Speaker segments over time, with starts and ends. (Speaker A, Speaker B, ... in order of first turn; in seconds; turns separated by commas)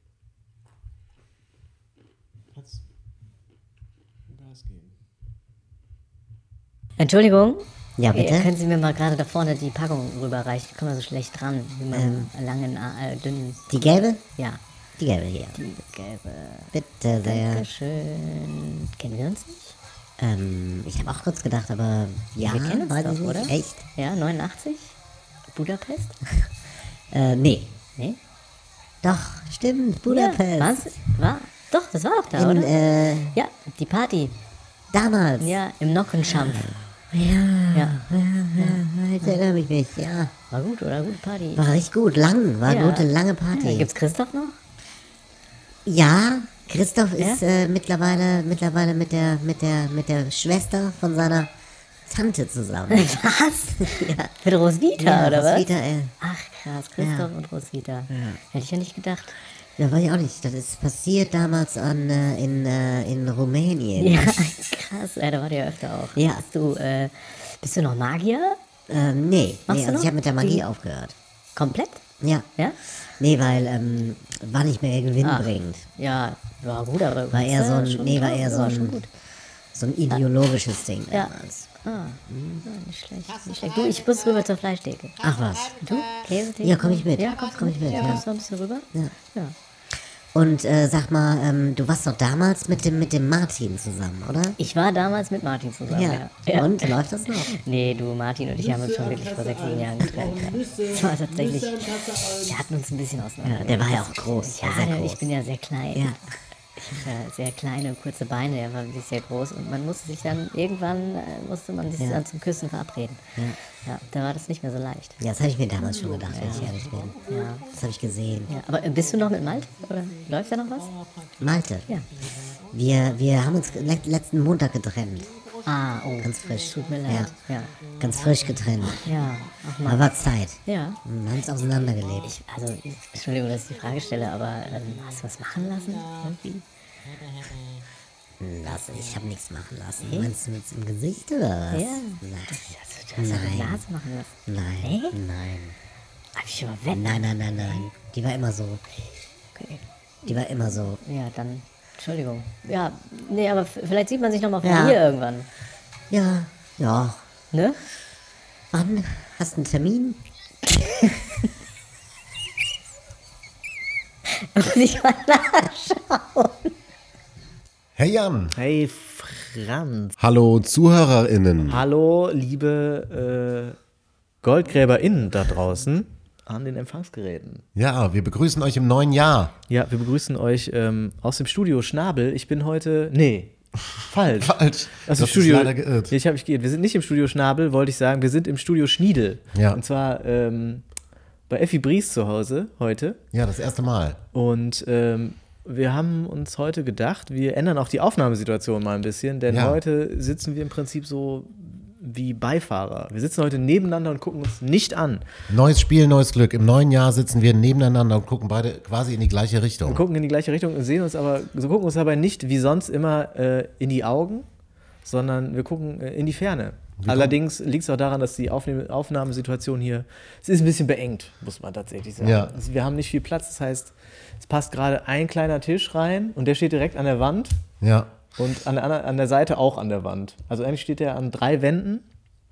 Speaker A: 2.5-2.8, Speaker A: 4.3-4.9, Speaker B: 7.0-13.9, Speaker C: 8.0-8.5, Speaker C: 11.9-12.3, Speaker C: 13.7-14.2, Speaker C: 15.0-15.6, Speaker B: 15.6-19.8, Speaker C: 16.7-17.6, Speaker C: 20.2-23.8, Speaker B: 22.5-25.0, Speaker B: 25.5-26.2, Speaker C: 27.1-27.8, Speaker C: 29.0-30.8, Speaker B: 30.1-32.7, Speaker C: 32.3-33.4, Speaker B: 33.3-34.4, Speaker C: 34.9-35.6, Speaker B: 35.4-36.8, Speaker C: 36.3-40.3, Speaker B: 37.7-39.4, Speaker B: 40.5-41.7, Speaker C: 41.6-43.9, Speaker B: 42.6-44.6, Speaker C: 45.9-51.5, Speaker C: 52.1-54.3, Speaker B: 52.9-55.7, Speaker C: 55.0-56.1, Speaker B: 56.2-59.4, Speaker C: 57.0-57.3, Speaker C: 58.1-58.4, Speaker C: 59.8-64.5, Speaker B: 64.0-68.6, Speaker C: 66.2-66.4, Speaker C: 68.9-71.2, Speaker B: 69.7-70.6, Speaker B: 71.6-72.0, Speaker C: 72.2-72.5, Speaker C: 73.2-75.8, Speaker B: 75.2-79.1, Speaker C: 77.3-79.1, Speaker C: 79.7-81.7, Speaker B: 81.1-85.2, Speaker C: 82.3-82.6, Speaker C: 85.2-85.8, Speaker B: 85.8-89.5, Speaker C: 86.6-88.2, Speaker C: 90.3-94.5, Speaker B: 94.6-106.2, Speaker C: 95.9-97.5, Speaker C: 103.4-105.3, Speaker B: 106.8-115.2, Speaker C: 115.2-118.5, Speaker B: 116.3-117.7, Speaker B: 118.5-121.0, Speaker C: 121.4-121.9, Speaker C: 122.7-125.4, Speaker B: 125.7-127.9, Speaker C: 126.2-127.3, Speaker C: 128.0-129.1, Speaker B: 129.0-131.0, Speaker C: 129.8-132.3, Speaker B: 132.3-136.6, Speaker C: 138.4-143.8, Speaker B: 140.0-140.3, Speaker B: 141.7-145.2, Speaker C: 144.5-145.8, Speaker B: 146.3-147.8, Speaker C: 146.9-148.8, Speaker B: 149.6-155.5, Speaker C: 150.2-151.0, Speaker C: 154.6-155.0, Speaker C: 156.1-157.2, Speaker B: 157.5-157.8, Speaker C: 158.7-160.2, Speaker B: 164.3-166.7, Speaker D: 168.0-168.6, Speaker A: 168.6-170.2, Speaker D: 170.2-171.8, Speaker A: 171.6-173.8, Speaker A: 174.4-177.7, Speaker D: 177.8-179.6, Speaker A: 179.7-190.8, Speaker D: 184.3-186.2, Speaker D: 189.5-189.8, Speaker A: 191.5-193.2, Speaker D: 193.3-194.2, Speaker A: 194.3-205.3, Speaker D: 199.5-199.8, Speaker D: 205.5-210.1, Speaker A: 209.9-214.5, Speaker A: 215.1-227.6, Speaker D: 217.0-217.4, Speaker D: 222.2-222.6, Speaker D: 227.8-228.1, Speaker A: 228.4-232.1